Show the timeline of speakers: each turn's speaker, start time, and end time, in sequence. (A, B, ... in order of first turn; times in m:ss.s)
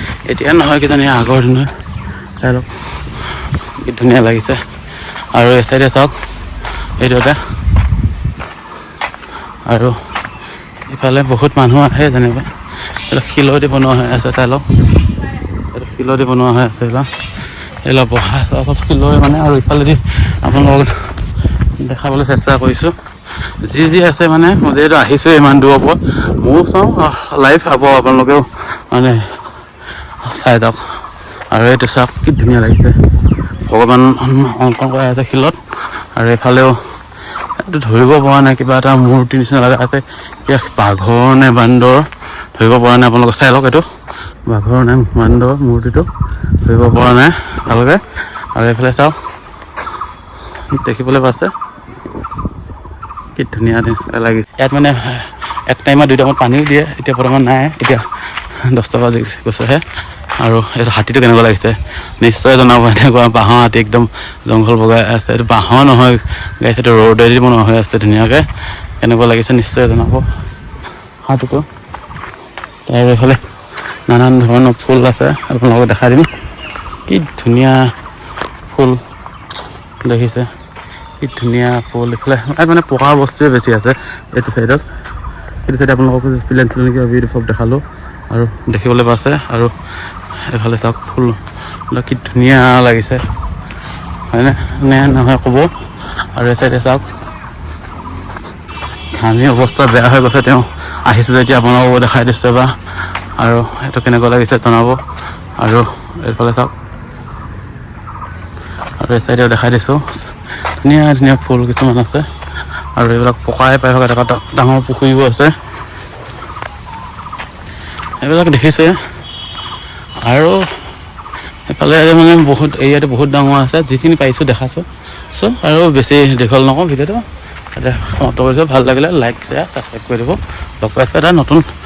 0:00.2-0:01.7 A
0:02.4-0:02.7 A
0:03.8-0:04.6 A
0:05.3-0:06.1 A
0:07.0-0:07.4 A
0:09.7-0:10.0 A
0:10.9-0:12.5 A
0:13.1-0:14.6 A
0:15.7-0:17.1 A
0:17.8-0:20.9 A
0:21.8-0:22.9 A
0:23.6-0:29.2 A
0:30.2-0:30.8 A
0:31.5-0:32.9 A
0:33.6-0:35.6 A
0:36.1-0:36.8 A
0:37.6-0:43.9 A
0:44.5-0:46.1 A
0:46.6-0:49.2 A
0:50.7-0:51.5 A
0:53.4-0:58.0 A
0:58.6-0:59.8 A
1:00.4-1:08.4 A
1:09.0-1:10.2 A
1:11.2-1:11.6 A
1:12.8-1:13.4 A
1:14.1-1:16.3 A
1:17.1-1:17.9 A
1:18.7-1:19.0 A
1:20.0-1:20.5 A
1:21.2-1:24.8 A
1:25.6-1:29.7 A
1:30.5-1:33.2 A
1:34.3-1:35.7 A
1:36.3-1:37.1 A
1:39.1-1:42.8 A
1:43.4-1:45.0 A
1:45.6-1:46.7 A
1:49.0-1:52.3 A
1:53.0-1:55.5 A
1:58.2-1:59.0 A
2:00.2-2:00.6 A
2:01.7-2:11.6 A